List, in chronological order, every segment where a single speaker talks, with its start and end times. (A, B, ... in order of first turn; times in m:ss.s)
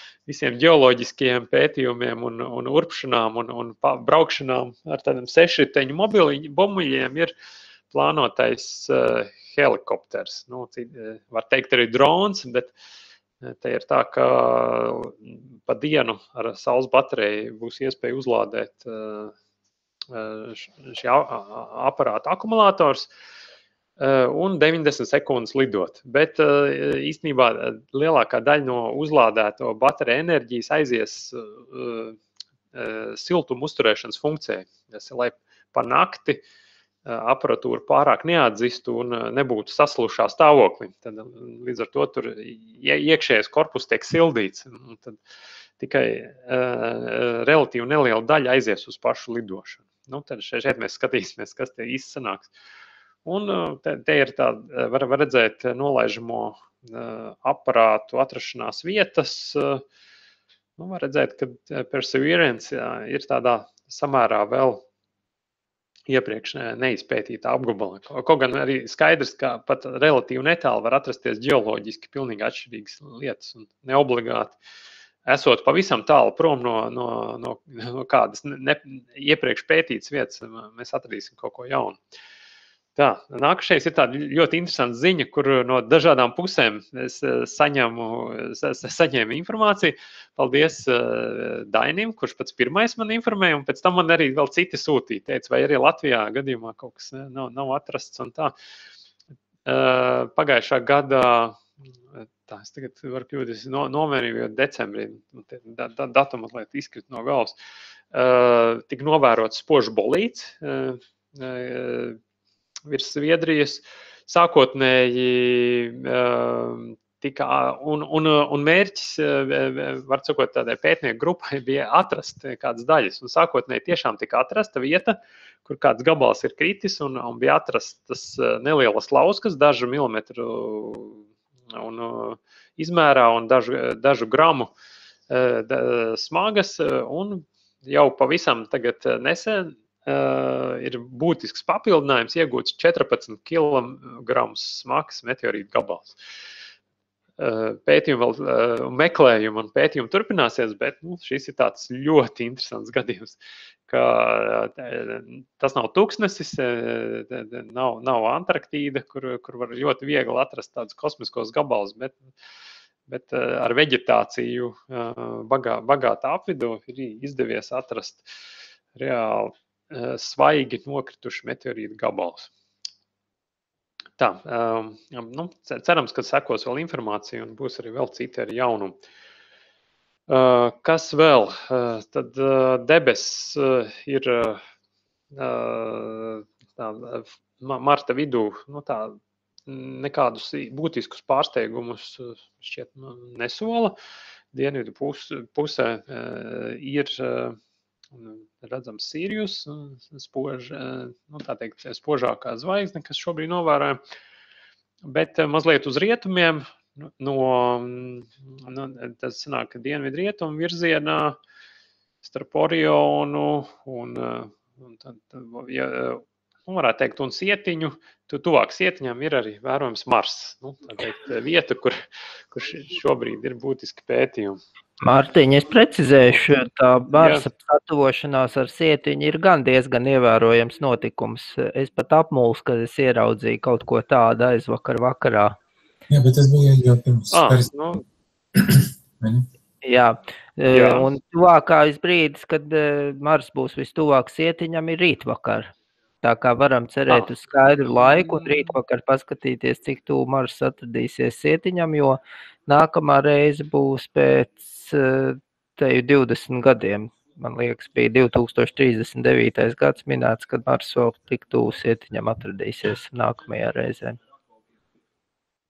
0:00.3-0:07.3 A
0:07.9-0:12.7 A
0:13.4-0:19.3 A
0:20.1-0:23.1 A
0:24.0-0:32.2 A
0:32.7-0:36.4 A
0:37.0-0:45.2 A
0:45.8-0:52.5 A
0:53.2-0:59.8 A
1:00.8-1:04.8 A
1:06.1-1:14.6 A
1:15.2-1:22.0 A
1:23.0-1:38.5 A
1:39.6-1:41.6 A
1:42.1-1:47.6 A
1:48.1-1:52.2 A
1:52.9-2:14.7 A
2:15.3-2:26.2 A
2:27.4-2:42.2 A
2:43.1-2:48.3 A
2:48.9-2:52.5 A
2:54.2-2:59.0 A
3:00.3-3:04.6 A
3:05.3-3:14.0 A
3:14.5-3:17.6 A
3:18.1-3:24.0 A
3:25.0-3:31.4 A
3:32.2-3:44.6 A
3:45.0-3:55.6 B
3:47.1-3:47.5 A
3:56.1-3:57.7 C
3:57.3-3:58.0 A
3:58.6-3:59.5 C
3:59.8-4:05.7 B
4:00.7-4:01.1 A
4:06.2-4:24.2 B
4:08.0-4:08.7 A